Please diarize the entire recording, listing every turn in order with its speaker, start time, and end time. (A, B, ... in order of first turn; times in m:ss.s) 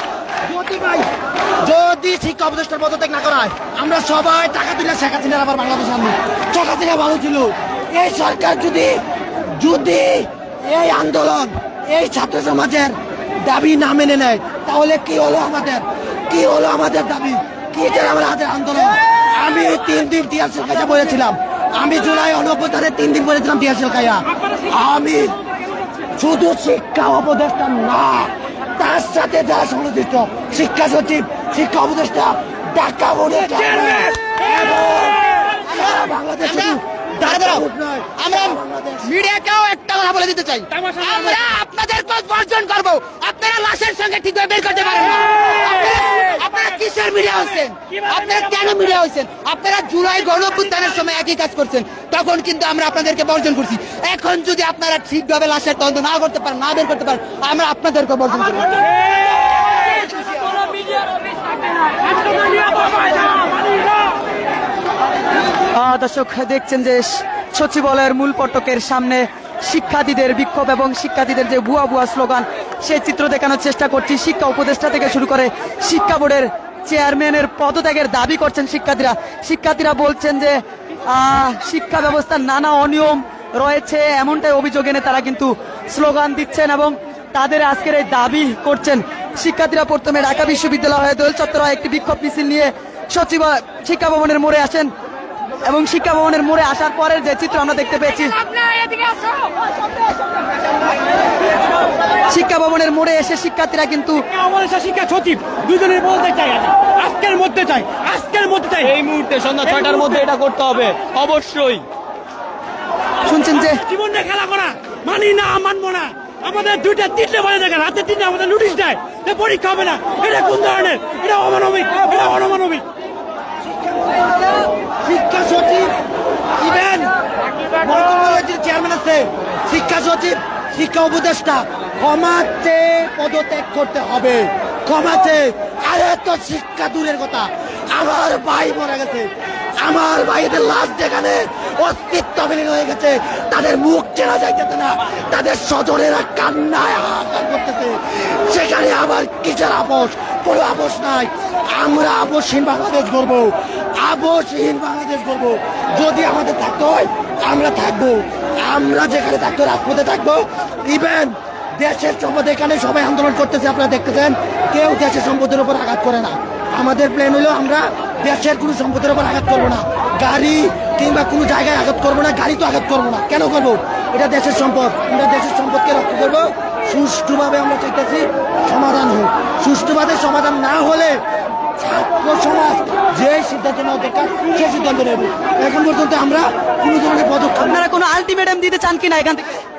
0:00.4-0:01.1 A
0:01.6-0:25.4 A
0:26.2-0:39.1 A
0:33.5-0:34.1 B
0:36.4-0:37.6 B
0:38.2-0:58.8 B
0:59.1-1:04.2 C
1:05.7-1:34.9 D
1:35.6-1:38.5 D
1:38.5-1:39.6 C
1:42.2-1:44.2 D
1:44.3-1:48.9 C
1:48.9-1:51.8 E
1:49.8-1:50.1 C
1:53.2-1:53.8 D
1:53.6-2:02.8 C
2:03.7-2:04.4 A
2:05.0-2:05.9 A
2:06.6-2:07.1 A
2:07.8-3:01.2 A
3:01.8-3:07.8 A
3:07.6-3:09.6 D